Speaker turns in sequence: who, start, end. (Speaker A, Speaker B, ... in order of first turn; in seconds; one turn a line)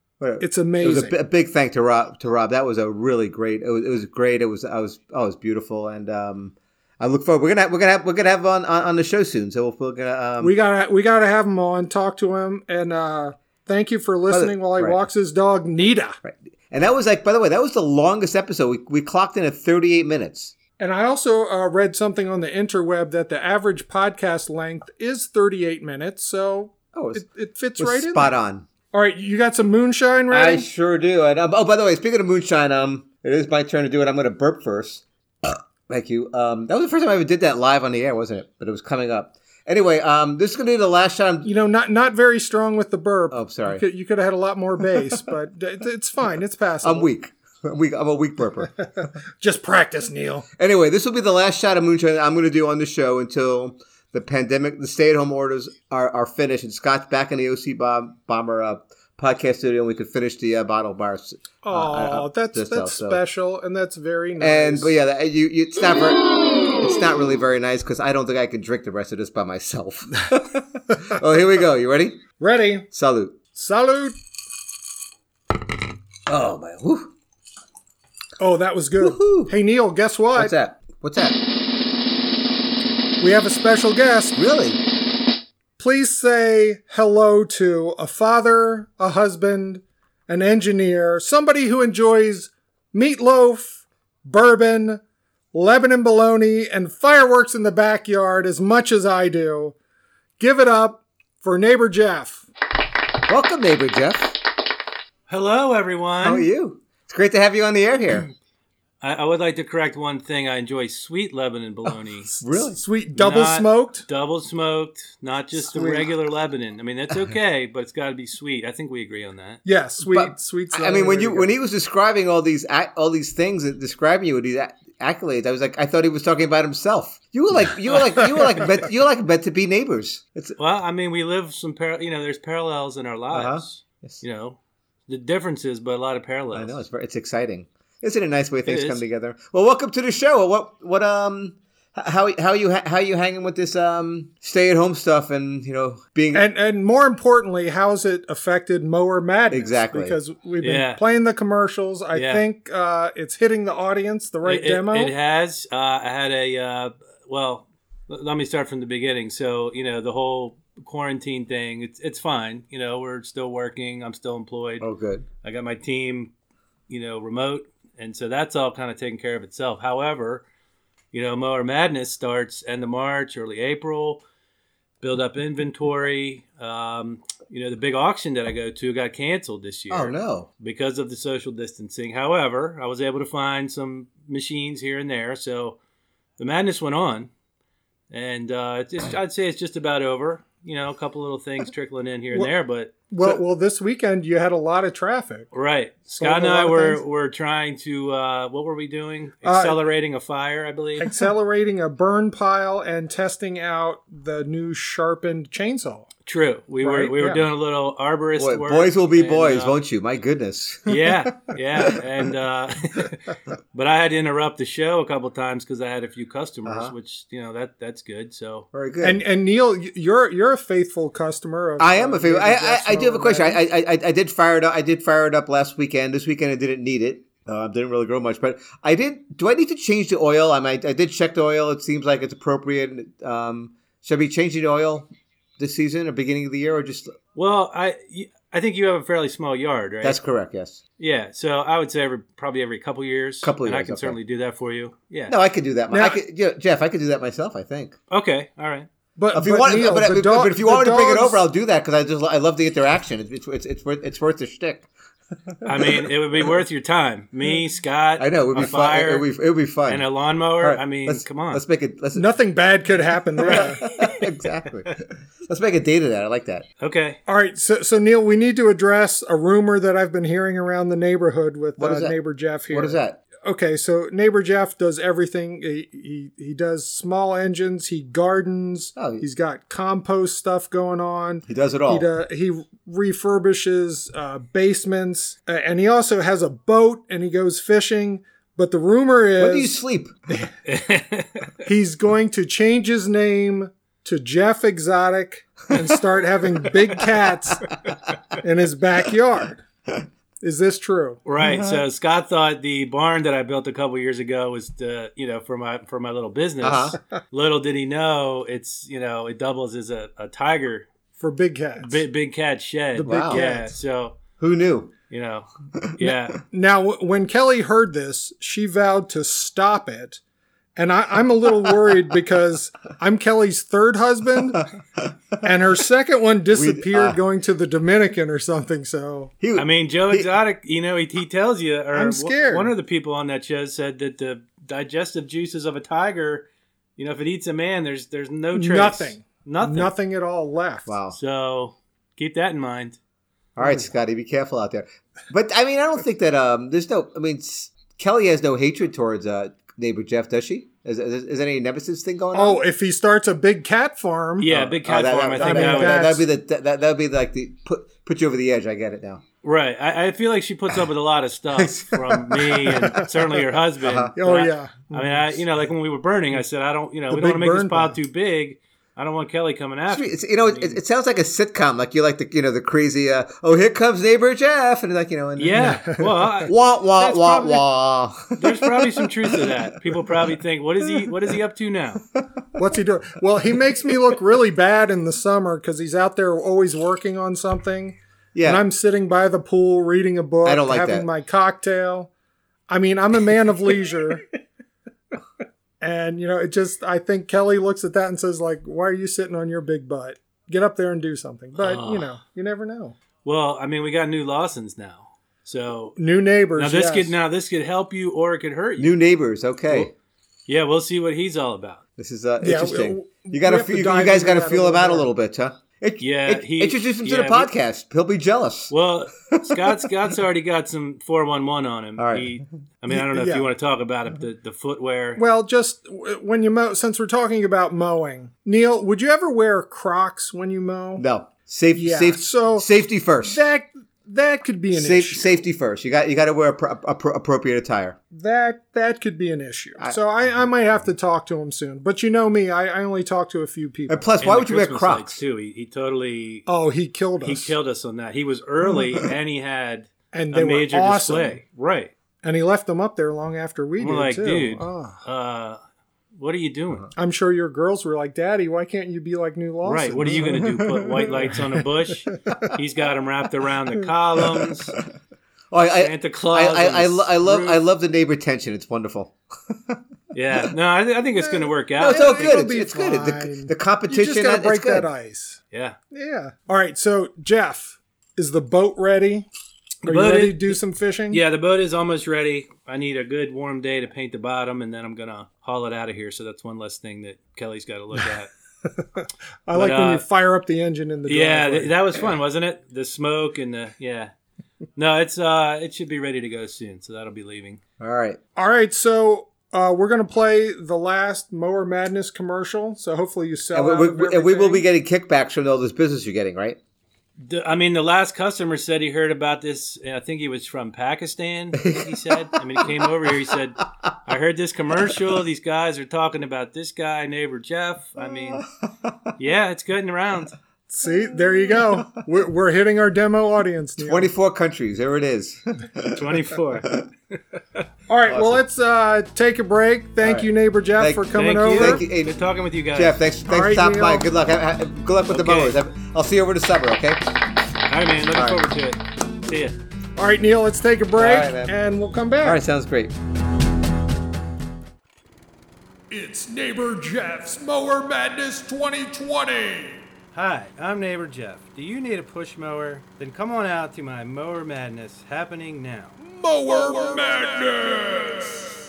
Speaker A: 0.2-10.5
Speaker B: 0.4-1.1
Speaker B: 10.4-16.2
Speaker A: 14.3-15.0
Speaker A: 16.2-20.6
Speaker B: 20.8-28.3
Speaker A: 26.9-27.2
Speaker A: 27.8-28.7
Speaker B: 28.9-30.7
Speaker A: 30.3-41.5
Speaker B: 41.4-47.1
Speaker A: 43.3-43.8
Speaker A: 46.8-49.1
Speaker B: 49.4-50.5
Speaker A: 50.6-63.2
Speaker B: 61.6-64.9
Speaker A: 64.4-72.2
Speaker B: 72.4-72.9
Speaker A: 72.9-73.4
Speaker B: 73.5-74.2
Speaker A: 76.3-77.1
Speaker B: 78.4-80.5
Speaker A: 79.0-79.5
Speaker A: 80.4-81.4
Speaker B: 83.2-84.4
Speaker A: 84.4-84.8
Speaker B: 85.8-95.0
Speaker B: 95.5-99.8
Speaker B: 100.4-102.5
Speaker A: 103.3-104.4
Speaker C: 105.3-106.5
Speaker A: 106.2-108.3
Speaker C: 109.0-112.3
Speaker A: 111.9-112.8
Speaker B: 112.3-114.0
Speaker C: 113.2-119.6
Speaker B: 115.6-116.1
Speaker B: 119.7-121.5
Speaker A: 120.0-130.6
Speaker C: 130.6-136.8
Speaker A: 133.3-134.2
Speaker A: 136.5-146.4
Speaker C: 138.7-139.0
Speaker B: 146.3-155.1
Speaker A: 149.5-150.2
Speaker C: 150.6-151.0
Speaker C: 152.1-152.4
Speaker C: 154.4-164.9
Speaker A: 164.8-165.3
Speaker C: 165.4-166.3
Speaker C: 166.9-170.4
Speaker C: 171.1-174.2
Speaker C: 175.0-185.8
Speaker A: 179.9-180.5
Speaker C: 186.4-187.3
Speaker C: 188.1-193.1
Speaker B: 193.1-195.5
Speaker C: 195.5-201.2
Speaker B: 196.2-197.0
Speaker B: 199.4-199.8
Speaker B: 201.0-206.1
Speaker C: 206.3-209.8
Speaker B: 206.8-207.5
Speaker A: 208.4-212.0
Speaker C: 210.9-218.7
Speaker A: 216.7-216.9
Speaker A: 218.7-219.2
Speaker B: 219.0-223.6
Speaker A: 221.8-237.2
Speaker C: 237.3-240.2
Speaker A: 240.0-240.8
Speaker C: 241.0-245.4
Speaker A: 243.4-244.2
Speaker A: 245.3-247.9
Speaker B: 245.9-246.2
Speaker C: 248.1-248.9
Speaker B: 249.2-251.4
Speaker A: 249.3-254.9
Speaker A: 255.5-256.0
Speaker C: 255.7-259.3
Speaker A: 258.2-260.1
Speaker C: 259.9-261.6
Speaker A: 260.6-262.3
Speaker B: 262.2-263.8
Speaker A: 263.4-266.7
Speaker C: 263.4-264.2
Speaker C: 266.8-267.2
Speaker B: 267.3-290.5
Speaker A: 271.8-272.2
Speaker A: 272.7-273.2
Speaker A: 279.0-279.2
Speaker A: 281.5-282.1
Speaker A: 289.4-290.1
Speaker C: 290.7-291.5
Speaker B: 291.6-297.6
Speaker B: 298.4-299.6
Speaker B: 300.4-301.2
Speaker C: 301.3-310.9
Speaker A: 301.4-301.8
Speaker A: 306.6-307.0
Speaker B: 311.2-312.0
Speaker C: 311.8-314.2
Speaker B: 313.0-313.7
Speaker A: 313.0-313.4
Speaker A: 314.4-314.9
Speaker C: 315.1-316.4
Speaker A: 315.8-316.1
Speaker B: 316.5-320.2
Speaker B: 320.8-324.7
Speaker B: 325.4-329.3
Speaker A: 326.5-327.2
Speaker A: 329.4-330.3
Speaker C: 329.6-339.9
Speaker B: 331.9-332.7
Speaker B: 338.5-340.9
Speaker A: 340.9-341.2
Speaker C: 341.1-343.0
Speaker A: 343.6-352.6
Speaker B: 352.3-354.5
Speaker C: 354.4-356.1
Speaker A: 354.5-359.2
Speaker B: 355.4-356.3
Speaker C: 359.4-370.8
Speaker A: 361.5-363.1
Speaker A: 363.8-364.1
Speaker B: 364.2-365.2
Speaker B: 367.1-368.0
Speaker A: 369.9-375.8
Speaker C: 375.4-376.5
Speaker B: 375.6-376.0
Speaker A: 376.5-379.6
Speaker C: 377.1-377.4
Speaker C: 378.4-382.0
Speaker B: 382.6-392.1
Speaker A: 388.3-388.6
Speaker A: 390.4-391.1
Speaker B: 392.7-394.2
Speaker B: 395.8-403.0
Speaker C: 401.6-402.1
Speaker C: 403.2-406.0
Speaker B: 406.0-407.1
Speaker C: 406.6-408.9
Speaker A: 408.8-409.9
Speaker C: 410.5-411.8
Speaker A: 412.0-418.7
Speaker B: 412.4-415.1
Speaker C: 416.0-417.5
Speaker C: 418.7-425.2
Speaker A: 419.3-419.9
Speaker A: 422.0-422.3
Speaker B: 422.9-423.5
Speaker B: 425.2-431.0
Speaker A: 431.0-433.4
Speaker B: 431.7-432.7
Speaker B: 433.2-435.4
Speaker A: 434.7-438.0
Speaker B: 438.1-444.1
Speaker A: 443.9-445.2
Speaker C: 444.2-446.5
Speaker B: 446.5-447.5
Speaker C: 447.2-451.9
Speaker B: 450.1-451.4
Speaker B: 452.2-455.0
Speaker C: 453.8-455.6
Speaker C: 456.2-456.9
Speaker B: 457.0-461.4
Speaker C: 459.6-464.7
Speaker A: 465.5-469.8
Speaker C: 465.8-467.6
Speaker C: 470.1-472.4
Speaker B: 471.2-475.4
Speaker A: 471.8-474.9
Speaker C: 475.5-475.8
Speaker B: 475.9-479.3
Speaker B: 479.8-481.2
Speaker C: 479.8-480.6
Speaker C: 481.1-488.3
Speaker B: 488.7-491.7
Speaker C: 489.5-490.0
Speaker C: 491.1-494.1
Speaker C: 494.8-497.6
Speaker A: 497.8-498.2
Speaker B: 498.4-504.7
Speaker A: 503.5-506.6
Speaker C: 507.2-518.5
Speaker A: 511.6-512.8
Speaker A: 518.8-519.1
Speaker C: 519.2-520.3
Speaker B: 520.7-524.1
Speaker A: 523.8-526.9
Speaker C: 525.9-526.8
Speaker B: 527.9-531.8
Speaker A: 528.1-528.4
Speaker A: 530.0-532.1
Speaker C: 531.1-533.0
Speaker A: 532.7-537.0
Speaker B: 533.3-534.1
Speaker C: 535.1-535.6
Speaker C: 537.7-539.6
Speaker A: 538.1-538.5
Speaker B: 540.0-542.4
Speaker A: 541.0-541.5
Speaker A: 542.2-542.9
Speaker D: 545.9-549.8
Speaker C: 550.1-556.0
Speaker D: 556.0-558.6